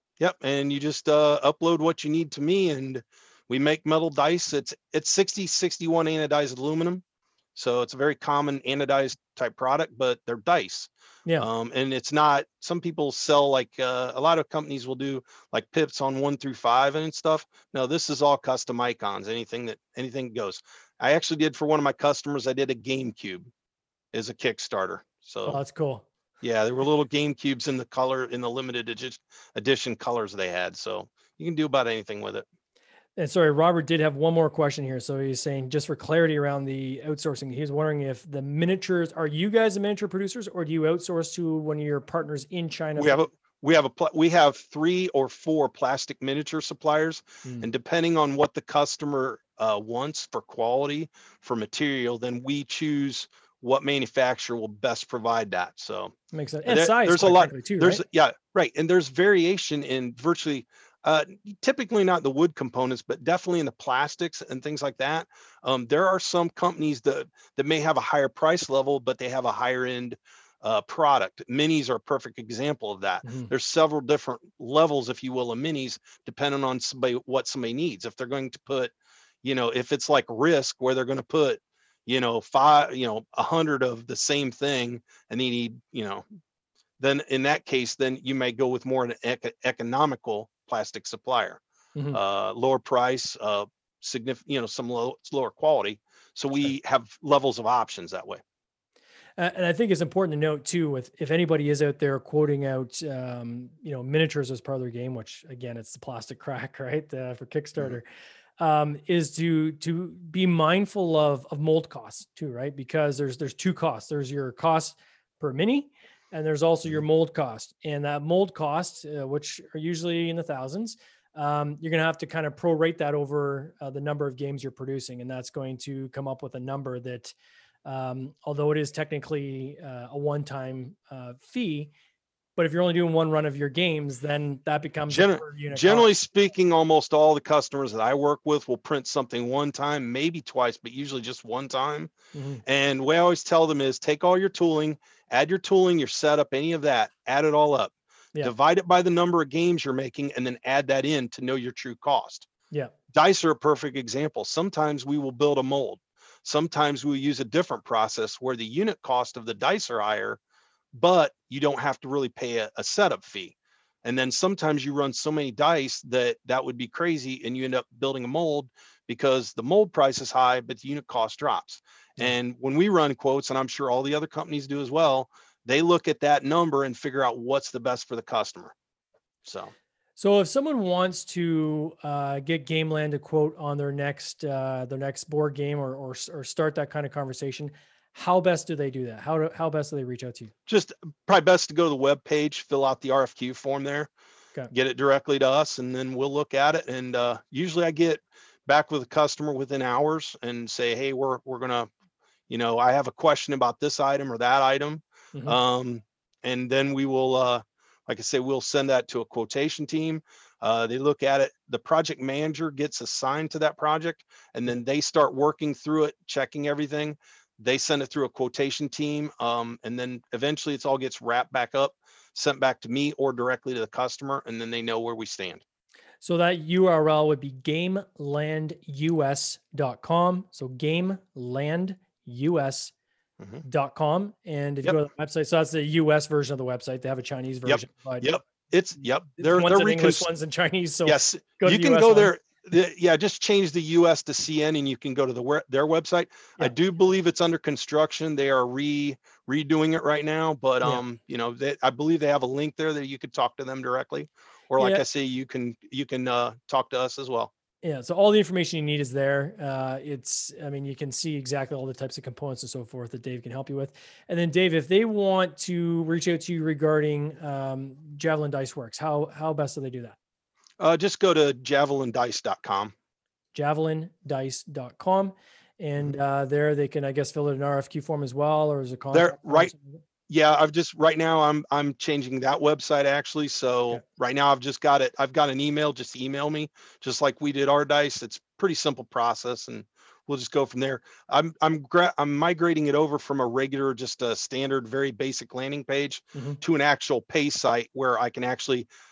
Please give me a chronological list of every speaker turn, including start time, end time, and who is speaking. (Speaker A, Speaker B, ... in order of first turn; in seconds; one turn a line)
Speaker A: 0.2-7.0
Speaker A: 7.5-23.5
Speaker A: 24.1-25.6
Speaker B: 25.4-26.1
Speaker A: 26.4-32.5
Speaker B: 33.2-43.1
Speaker A: 43.0-56.1
Speaker B: 56.3-58.0
Speaker A: 56.6-86.2
Speaker B: 73.2-73.5
Speaker A: 87.0-91.6
Speaker A: 92.1-98.4
Speaker B: 99.4-108.0
Speaker B: 108.6-127.3
Speaker B: 127.8-131.9
Speaker B: 132.6-136.1
Speaker A: 135.1-142.1
Speaker B: 142.3-142.6
Speaker A: 142.6-152.5
Speaker A: 153.1-160.4
Speaker A: 160.9-178.7
Speaker A: 179.4-179.7
Speaker B: 180.2-190.5
Speaker A: 190.7-194.1
Speaker A: 194.7-201.9
Speaker A: 202.5-225.6
Speaker B: 226.2-232.9
Speaker B: 233.6-238.3
Speaker A: 237.7-240.2
Speaker B: 239.4-242.3
Speaker A: 241.1-257.5
Speaker B: 254.8-255.0
Speaker B: 257.8-270.2
Speaker A: 270.8-272.9
Speaker B: 273.5-280.0
Speaker A: 279.1-279.7
Speaker A: 280.3-298.9